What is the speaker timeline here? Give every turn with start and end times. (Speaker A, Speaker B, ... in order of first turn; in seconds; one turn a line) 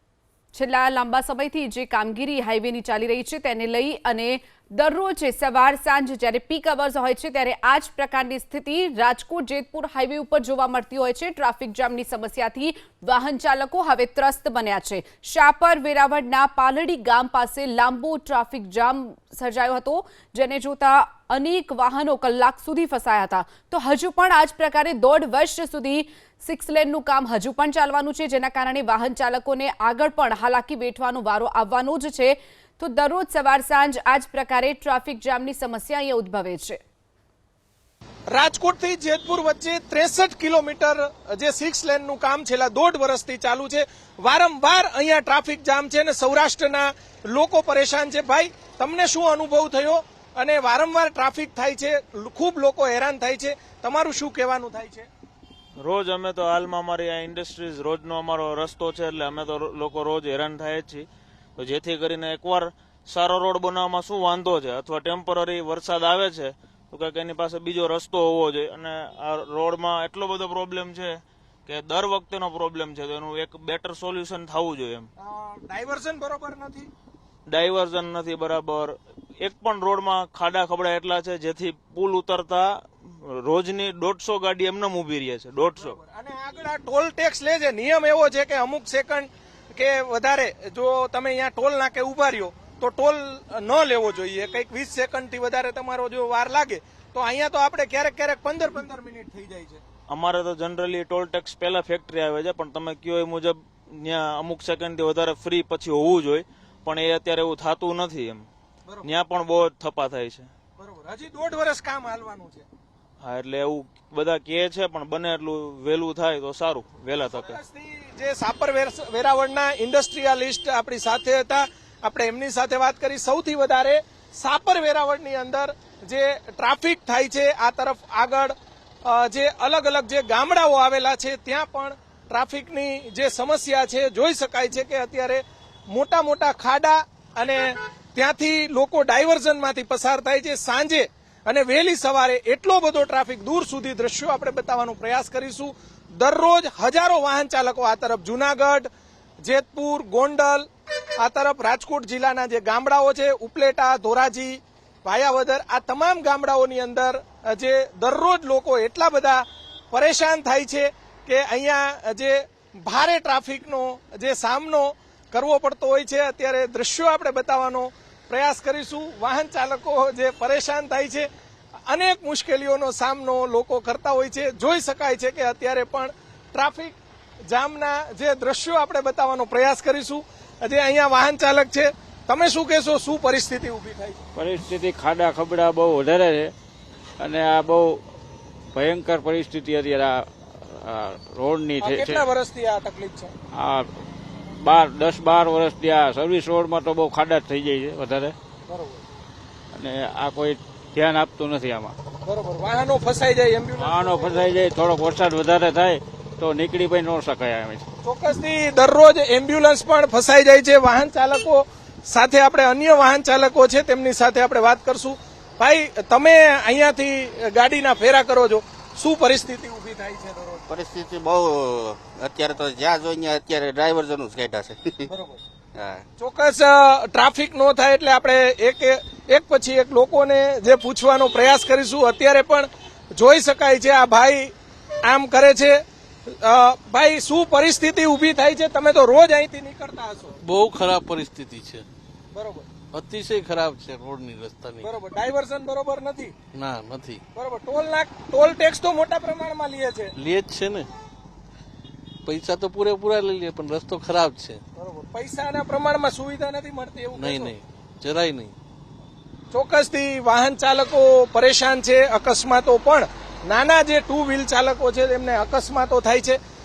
Speaker A: 0.5-36.8
Speaker B: 38.3-55.1
Speaker C: 55.8-75.1
Speaker B: 75.2-76.9
Speaker C: 77.5-86.0
Speaker B: 85.7-99.8
Speaker C: 100.1-108.5
Speaker C: 109.0-110.5
Speaker B: 110.8-112.7
Speaker C: 113.2-117.6
Speaker B: 117.2-128.5
Speaker B: 129.0-148.9
Speaker B: 149.4-150.7
Speaker B: 151.2-171.3
Speaker B: 171.9-176.9
Speaker B: 177.5-184.2
Speaker D: 184.3-186.5
Speaker D: 187.2-188.0
Speaker D: 188.7-192.2
Speaker B: 191.8-193.3
Speaker D: 193.5-194.0
Speaker D: 194.6-198.3
Speaker B: 198.7-199.0
Speaker D: 199.7-201.9
Speaker B: 202.2-204.5
Speaker D: 203.8-207.8
Speaker B: 208.0-220.7
Speaker E: 220.7-225.1
Speaker B: 225.1-225.4
Speaker E: 225.7-226.1
Speaker B: 226.2-234.5
Speaker B: 235.0-240.4
Speaker F: 240.4-241.8
Speaker B: 242.3-242.7
Speaker F: 242.9-244.9
Speaker B: 244.8-246.3
Speaker F: 246.5-247.2
Speaker B: 247.3-250.1
Speaker F: 250.2-250.9
Speaker F: 252.2-254.6
Speaker B: 254.8-257.5
Speaker F: 257.1-258.5
Speaker B: 259.5-266.4